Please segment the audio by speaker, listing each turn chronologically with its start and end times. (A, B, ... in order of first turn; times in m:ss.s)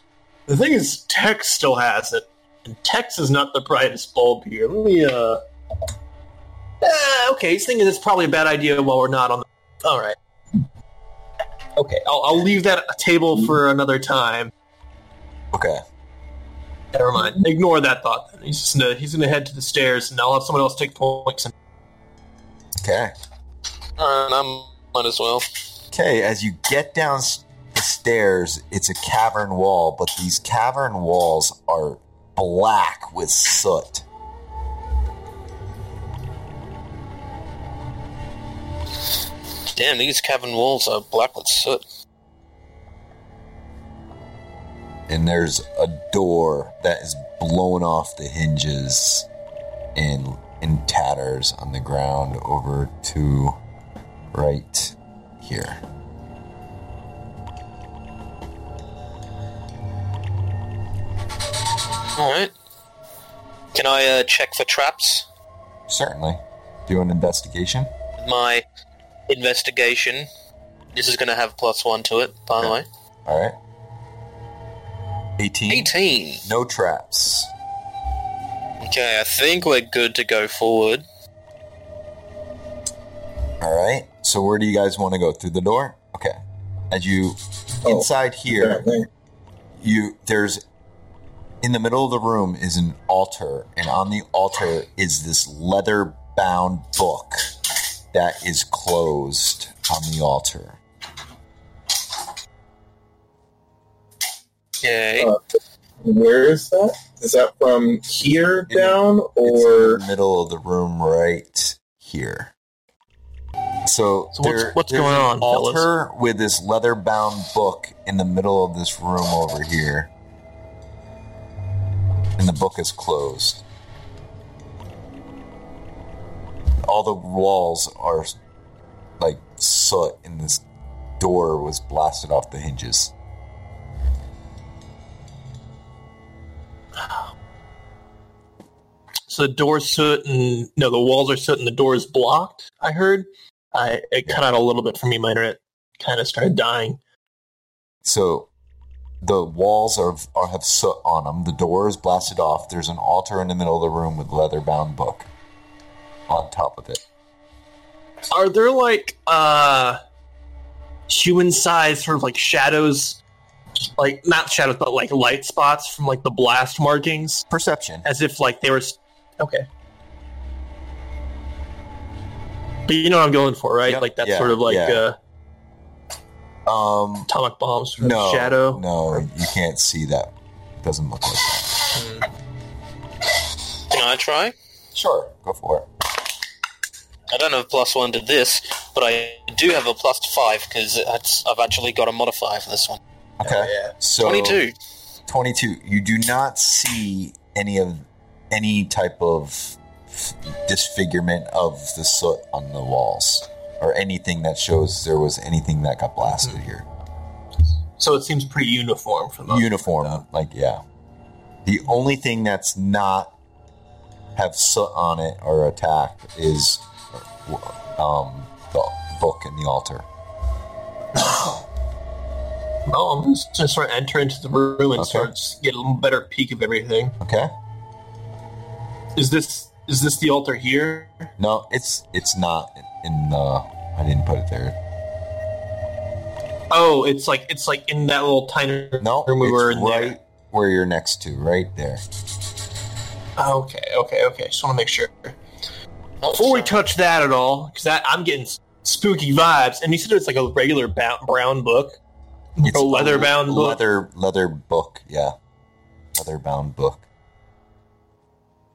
0:00.5-0:05.4 A
0:06.8-0:10.2 A
0:11.8-0:14.5 A
0:15.5-0:15.8 B
0:16.9-0:21.5 A
0:22.8-0:23.1 B
0:24.0-0:25.5 C
0:25.9-0:34.0 B
0:39.7-0:41.8 C
0:45.1-0:49.3 B
0:50.0-0:53.6 B
0:54.3-0:55.8 B
1:02.2-1:02.5 C
1:03.7-1:05.3 C
1:05.9-1:07.9 B
1:08.2-1:08.6 C
1:09.3-1:10.3 C
1:11.0-1:12.9 C
1:13.3-1:13.6 B
1:15.4-1:17.5 B
1:15.7-1:16.4 C
1:18.8-1:21.0 C
1:23.6-1:28.8 B
1:27.8-1:29.1 D
1:29.8-1:30.6 B
1:31.6-1:37.5 B
1:38.1-1:40.8 B
1:44.8-1:45.3 C
1:46.0-1:50.0 D
1:48.7-1:52.5 B
1:53.8-2:00.1 B
1:54.3-1:55.9 A
2:02.4-2:03.6 B
2:06.8-2:08.3 B
2:09.2-2:10.6 B
2:11.2-2:13.1 B
2:19.3-2:27.0 A
2:28.0-2:28.5 B
2:29.2-2:35.3 B
2:36.3-2:37.0 B
2:38.3-2:40.0 A
2:41.1-2:43.2 A
2:44.0-2:47.4 A
2:47.5-2:48.0 B
2:48.0-2:49.7 A
2:52.9-2:55.2 A
2:53.9-2:55.0 B
2:56.7-2:57.3 B
2:57.3-2:59.2 A
2:58.0-3:01.9 B
3:02.0-3:02.2 A
3:03.9-3:04.5 C
3:04.9-3:05.9 B
3:07.3-3:13.0 C
3:13.4-3:14.6 B
3:13.4-3:13.9 A
3:14.2-3:14.7 C
3:15.3-3:26.8 B
3:28.0-3:30.2 A
3:29.5-3:30.8 B
3:31.6-3:33.3 B
3:34.4-3:40.1 B
3:41.2-3:41.6 A
3:42.9-3:47.2 A
3:45.0-3:45.3 B
3:47.2-3:47.5 B
3:49.2-3:51.3 A
3:51.4-3:54.8 B
3:56.7-4:00.2 A
3:59.0-4:02.0 B
4:03.4-4:05.4 A
4:06.2-4:06.8 C
4:06.3-4:12.0 A
4:12.6-4:13.8 A
4:12.6-4:15.4 B
4:16.2-4:17.0 B